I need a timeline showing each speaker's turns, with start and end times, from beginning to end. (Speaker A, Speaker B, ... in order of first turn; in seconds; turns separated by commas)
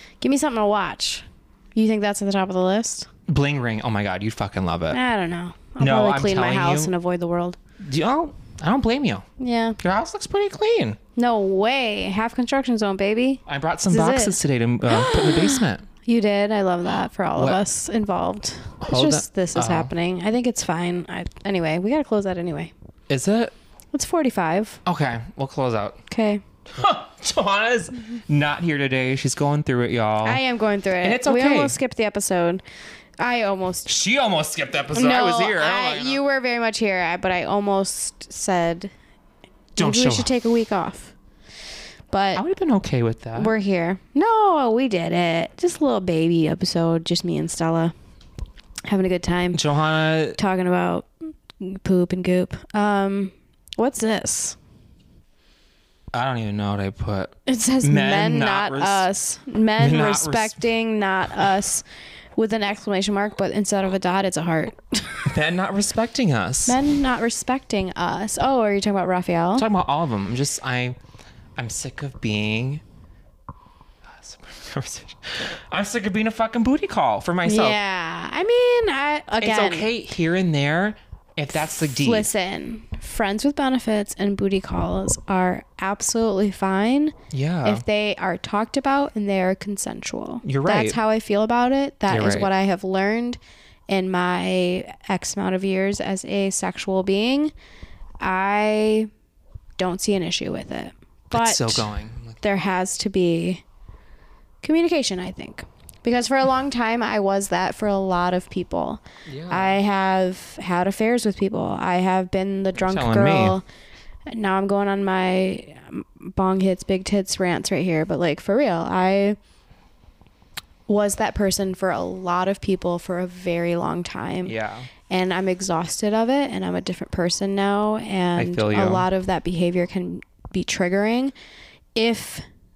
Speaker A: 0.2-3.1, Speaker B: 3.3-5.0, Speaker A: 4.9-7.6, Speaker B: 5.8-6.9, Speaker B: 7.8-9.2, Speaker A: 9.4-9.8, Speaker B: 9.8-11.0, Speaker A: 11.2-22.7, Speaker B: 13.5-15.8, Speaker B: 17.4-17.6, Speaker B: 18.8-19.9, Speaker B: 23.1-23.5, Speaker A: 23.9-24.8, Speaker B: 24.8-26.0, Speaker A: 26.1-26.4, Speaker B: 26.7-30.4, Speaker A: 30.2-32.6, Speaker B: 31.0-31.7, Speaker A: 33.2-33.9, Speaker B: 33.9-36.2, Speaker A: 34.9-38.9, Speaker A: 39.8-41.1, Speaker B: 39.8-40.3, Speaker A: 42.1-42.4, Speaker B: 42.3-43.5, Speaker A: 43.4-47.9, Speaker A: 48.9-49.6, Speaker B: 49.5-50.4, Speaker A: 50.4-51.1, Speaker A: 51.6-54.6, Speaker B: 56.1-59.0, Speaker A: 57.5-61.8, Speaker B: 59.8-60.6, Speaker A: 62.4-65.3, Speaker B: 65.2-66.8, Speaker A: 66.7-69.7, Speaker B: 69.6-71.0, Speaker B: 71.5-72.8, Speaker B: 74.0-77.8, Speaker A: 77.4-79.9, Speaker B: 79.4-82.3, Speaker A: 81.8-97.5, Speaker B: 87.3-87.8, Speaker B: 90.4-91.0, Speaker B: 92.1-92.5, Speaker A: 98.2-99.1, Speaker A: 99.8-101.9, Speaker B: 101.3-102.4, Speaker A: 102.4-103.6, Speaker A: 104.6-113.6, Speaker B: 109.3-109.8, Speaker B: 112.7-113.6, Speaker A: 114.3-119.4, Speaker A: 120.9-124.5, Speaker B: 124.4-124.9, Speaker A: 125.1-131.3, Speaker B: 128.4-129.1, Speaker A: 131.9-132.4